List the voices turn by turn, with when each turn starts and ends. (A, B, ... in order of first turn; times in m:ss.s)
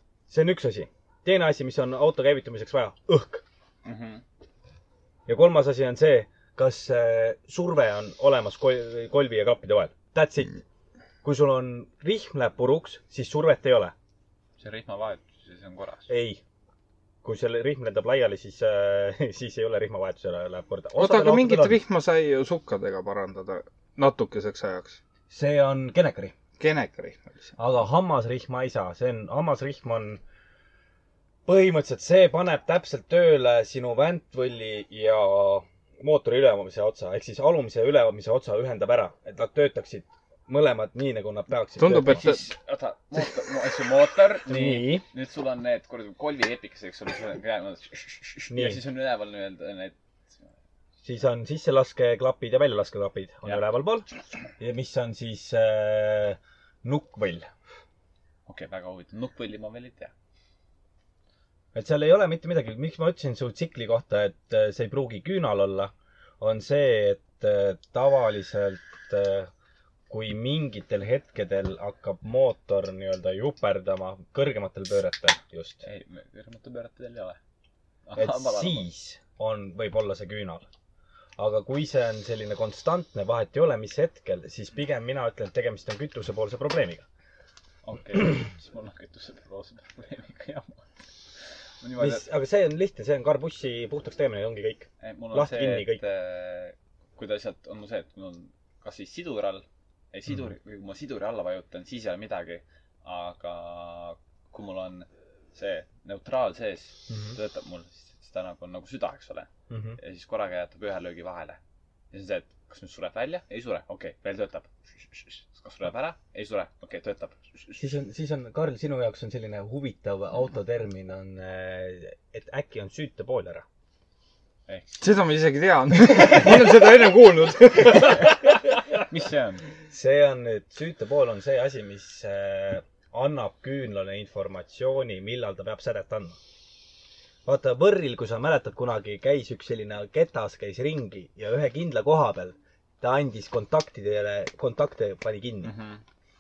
0:00.3-0:03.4 A
0:03.8-0:04.2 B
0:05.3-0:10.6 A
0:11.2-0:13.9 A
0:14.6-0:16.1 B
0:16.1-0:16.4 A
0:17.2-0:21.8 A
0:21.0-0:25.0 C
0:25.3-0:26.3 A
0:26.6-0:27.6 C
0:27.6-0:30.2 A
0:31.5-0:42.2 A
0:41.7-0:42.5 C
0:42.1-0:50.5 B
0:44.5-0:45.0 A
0:48.5-0:48.8 A
0:51.0-0:54.1 A
0:54.6-0:57.5 A
0:58.5-1:00.1 B
1:01.7-1:09.5 A
1:10.1-1:15.8 A
1:15.8-1:17.4 B
1:18.1-1:18.9 B
1:18.2-1:20.7 A
1:21.4-1:27.0 A
1:27.8-1:30.9 B
1:31.8-1:32.3 B
1:32.0-1:36.0 A
1:35.0-1:51.6 B
1:47.1-1:47.4 A
1:49.7-1:50.0 A
1:52.1-1:57.8 B
1:57.8-2:03.6 A
2:04.7-2:05.2 B
2:05.0-2:08.5 C
2:09.1-2:09.7 B
2:09.9-2:16.4 A
2:17.4-2:25.8 A
2:25.6-2:26.0 B